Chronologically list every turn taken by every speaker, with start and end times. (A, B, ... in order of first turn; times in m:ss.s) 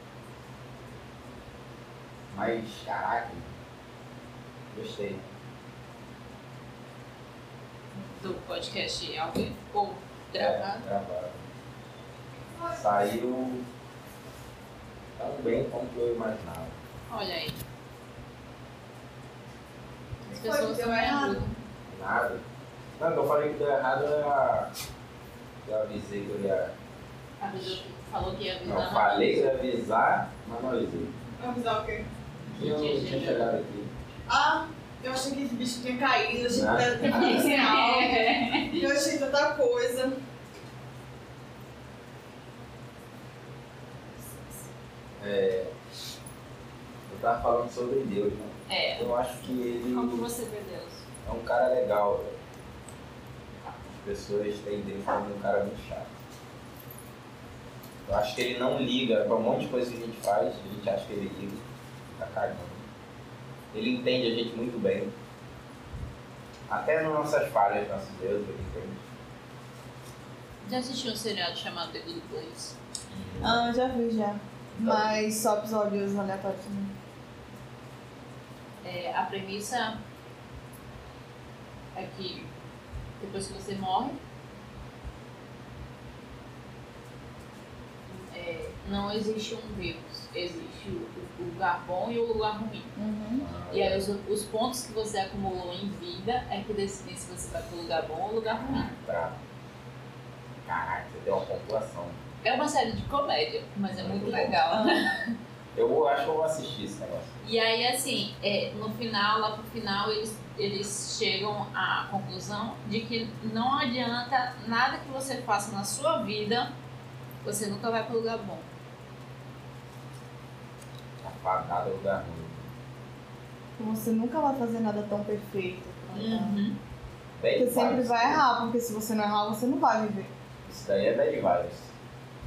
0:02.3-0:03.5 A
0:04.7-0:05.2 A
0:08.1-0:10.8 B
0:10.3-0:11.5 A
0:12.7-0:13.6 A
0:15.2-0:16.7 A
0:17.1-0:17.6 B
0:20.3-0:21.4 C
0:20.3-0:21.6 B
0:21.9-0:22.4 A
0:23.0-0:24.7 A
0:25.6-0:26.7 A
0:27.4-0:29.5 B
0:28.6-0:31.1 A
0:31.4-0:32.1 C
0:32.5-0:33.9 A
0:32.5-0:33.5 B
0:34.3-0:40.2 C
0:36.5-0:37.5 A
0:37.0-0:38.8 B
0:45.2-0:45.7 A
0:47.1-0:50.3 A
0:48.7-0:49.1 B
0:49.8-0:51.0 B
0:51.2-0:52.3 A
0:53.6-0:56.1 A
0:58.0-1:02.9 A
1:03.7-1:05.1 A
1:06.7-1:09.0 A
1:10.6-1:12.8 B
1:13.1-1:13.6 A
1:13.4-1:16.9 C
1:14.7-1:15.1 A
1:18.8-1:20.0 B
1:21.9-1:22.5 B
1:23.2-1:24.2 B
1:28.1-1:32.9 B
1:33.0-1:33.5 C
1:33.4-1:34.1 A
1:33.7-1:38.9 B
1:38.5-1:39.4 A
1:40.6-1:42.2 A
1:42.4-1:45.3 B
1:43.9-1:44.6 A
1:44.7-1:45.1 C
1:45.7-1:47.3 A
1:47.4-1:56.7 B
1:57.4-1:58.7 B
2:01.2-2:02.7 A
2:03.8-2:06.6 C
2:06.1-2:06.8 B
2:07.4-2:08.4 A
2:07.6-2:10.3 C
2:10.6-2:11.9 A